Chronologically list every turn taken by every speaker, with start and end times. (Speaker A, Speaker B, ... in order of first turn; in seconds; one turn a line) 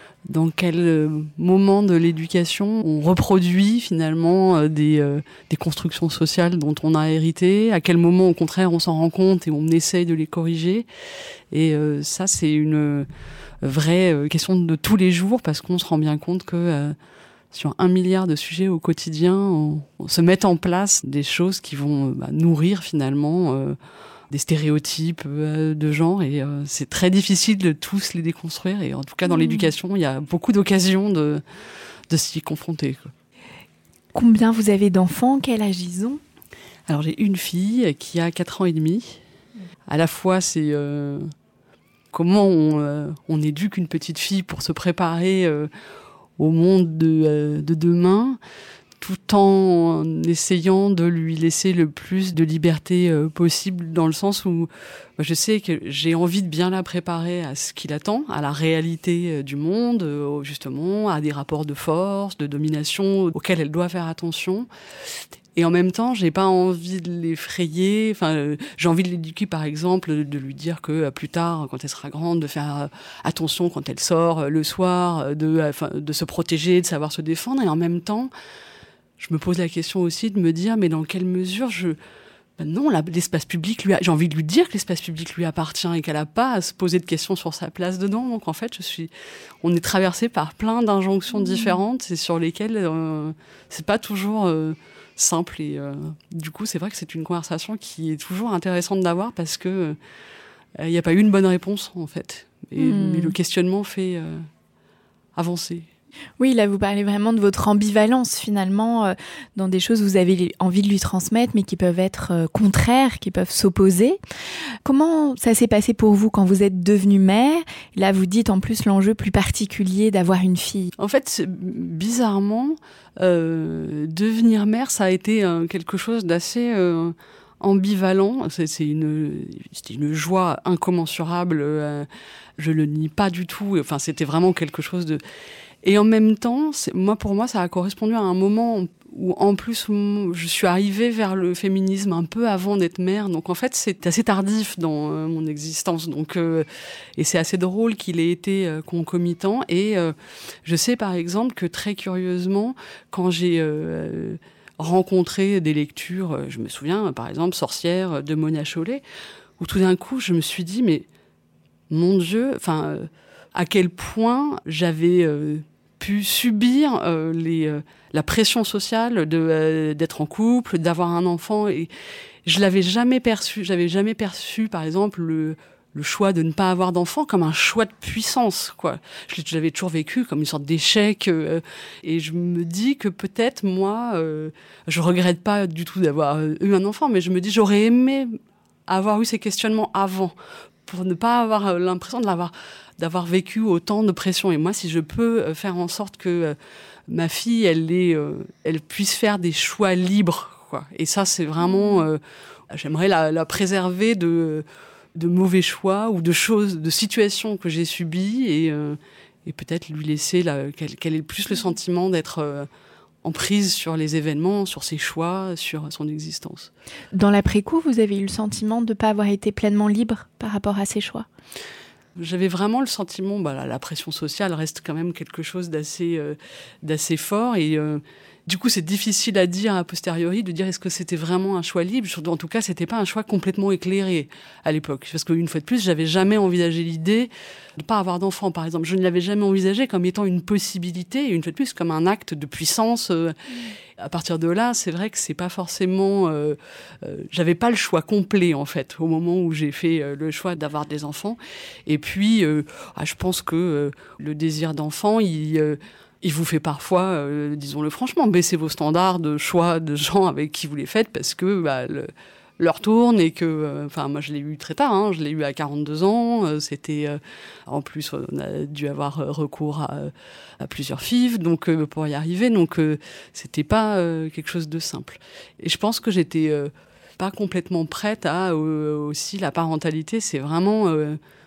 Speaker A: 0.3-10.9
Speaker A: 11.5-13.1
Speaker A: 13.6-17.0
Speaker A: 17.5-23.8
Speaker A: 24.3-31.4
Speaker B: 29.3-29.7
Speaker A: 32.1-33.1
Speaker B: 34.1-36.2
Speaker A: 36.9-39.2
Speaker A: 39.9-41.3
Speaker A: 42.1-45.7
Speaker A: 46.4-48.4
Speaker A: 49.0-64.7
Speaker A: 65.6-78.3
Speaker A: 79.2-82.0
Speaker A: 82.6-89.1
Speaker A: 89.6-100.0
Speaker B: 91.3-91.7
Speaker A: 100.8-104.5
Speaker B: 102.8-103.3
Speaker A: 105.4-105.9
Speaker B: 106.4-114.2
Speaker B: 114.8-120.9
Speaker A: 121.0-132.1
Speaker A: 132.6-135.2
Speaker A: 135.8-159.0
Speaker A: 159.6-161.1
Speaker A: 161.9-171.9
Speaker A: 172.4-190.3
Speaker A: 190.9-196.6
Speaker A: 197.1-212.7
Speaker B: 201.6-202.0
Speaker A: 213.2-216.7
Speaker B: 217.1-221.3
Speaker A: 222.2-243.4
Speaker A: 244.0-281.2